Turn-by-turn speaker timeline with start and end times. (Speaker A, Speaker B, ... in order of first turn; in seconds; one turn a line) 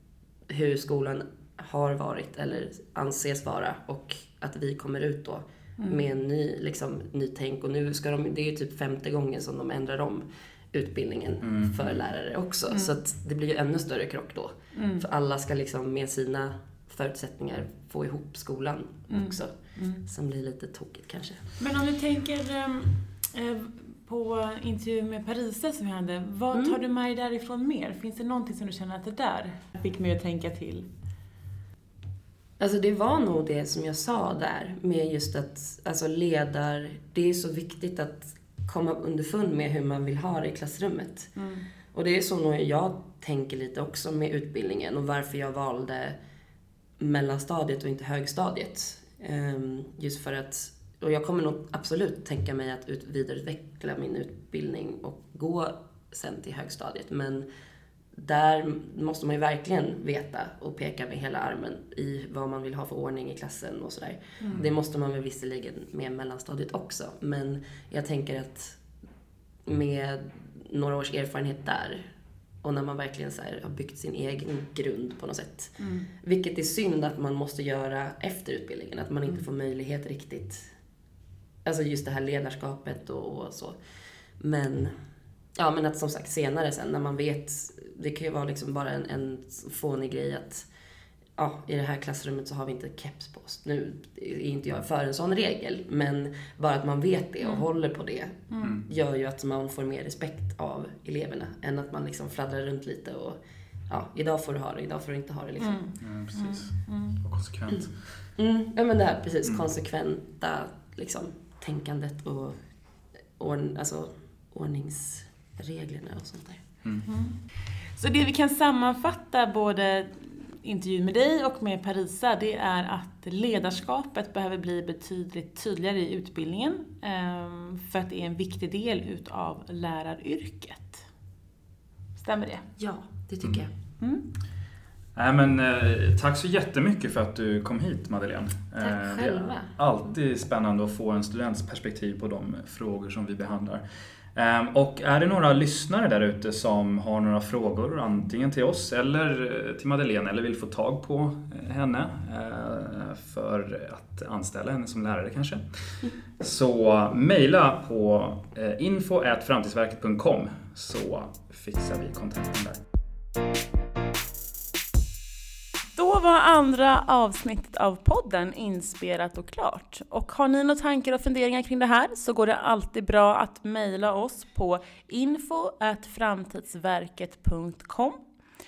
Speaker A: 0.5-21.6
Speaker B: 5.8-6.0
Speaker C: 11.4-12.0
Speaker B: 12.7-12.9
Speaker B: 14.7-15.1
Speaker B: 19.1-20.1
Speaker B: 21.6-30.9
Speaker A: 26.5-26.8
Speaker A: 32.6-41.4
Speaker B: 41.4-41.7
Speaker A: 41.9-46.2
Speaker A: 47.0-57.5
Speaker A: 58.1-68.8
Speaker A: 69.6-72.1
Speaker A: 72.6-80.7
Speaker B: 75.8-76.1
Speaker A: 81.6-83.8
Speaker A: 84.4-85.0
Speaker A: 85.6-90.7
Speaker A: 91.4-105.9
Speaker B: 98.5-98.8
Speaker B: 105.6-107.2
Speaker C: 106.0-108.2
Speaker A: 108.4-112.6
Speaker A: 113.4-116.6
Speaker B: 117.0-117.4
Speaker B: 118.0-131.0
Speaker B: 132.2-132.7
Speaker A: 132.8-133.7
Speaker B: 134.0-134.3
Speaker C: 135.1-143.8
Speaker A: 138.8-139.7
Speaker C: 144.3-162.8
Speaker B: 165.9-178.2